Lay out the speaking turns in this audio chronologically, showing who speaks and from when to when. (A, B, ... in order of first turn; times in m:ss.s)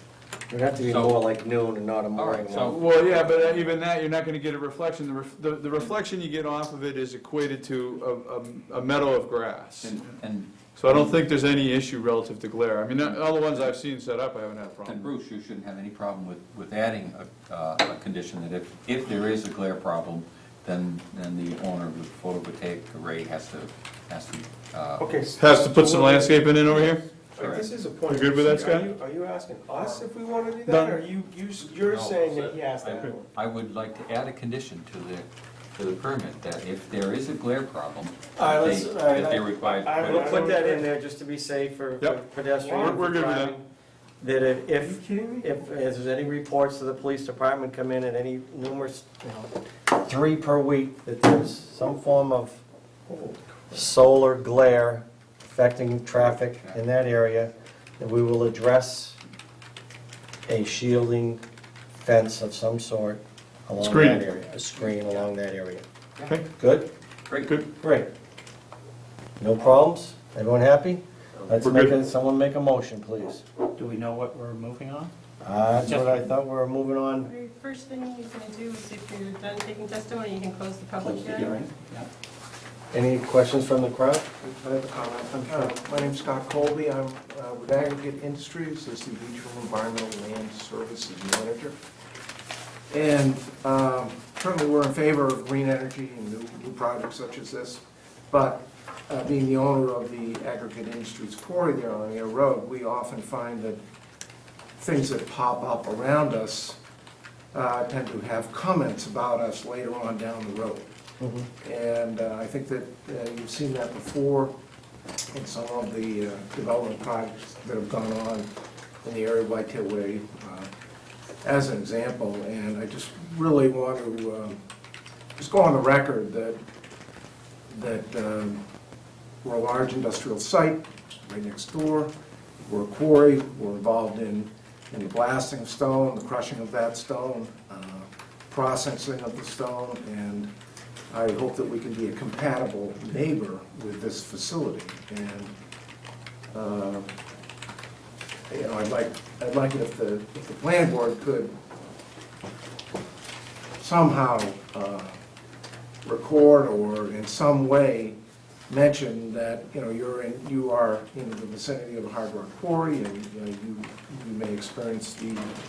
0:00.5-0:03.1 A
0:00.8-0:01.2 B
0:02.1-0:02.8 B
0:02.5-0:10.0 C
0:09.8-0:11.1 B
0:10.8-0:15.1 C
0:14.8-0:25.1 B
0:25.0-0:33.3 D
0:25.4-0:27.0 C
0:27.4-0:27.7 B
0:28.1-0:28.9 C
0:30.6-0:31.0 C
0:31.8-0:40.5 B
0:38.4-0:40.8 D
0:38.4-0:39.4 A
0:40.0-0:43.6 A
0:42.6-0:43.0 D
0:42.7-0:43.6 C
0:44.2-0:52.6 A
0:44.8-0:45.6 D
0:53.1-0:53.8 D
0:53.7-0:59.2 A
1:00.5-1:01.4 A
1:02.0-1:05.8 A
1:03.8-1:04.2 C
1:06.2-1:06.5 C
1:06.6-1:06.9 A
1:07.2-1:07.5 B
1:07.4-1:07.7 C
1:07.8-1:08.1 A
1:09.4-1:13.4 A
1:11.6-1:12.0 C
1:13.8-1:15.1 E
1:15.4-1:17.3 A
1:15.8-1:16.3 E
1:17.2-1:21.6 F
1:21.0-1:22.1 E
1:22.9-1:24.3 A
1:24.4-1:31.8 G
1:32.9-1:43.8 G
1:44.8-1:46.8 G
1:47.5-1:50.9 G
1:51.2-1:51.5 A
1:51.6-1:54.5 G
1:55.3-1:58.5 G
1:59.0-2:00.7 G
2:01.4-2:04.6 G
2:05.4-2:06.6 G
2:07.7-2:08.6 G
2:09.4-2:12.1 G
2:12.6-2:20.5 G
2:21.1-2:25.5 G
2:26.5-2:27.1 G
2:28.5-2:31.5 G
2:33.8-2:35.2 G
2:36.0-2:38.2 G
2:38.7-2:45.5 G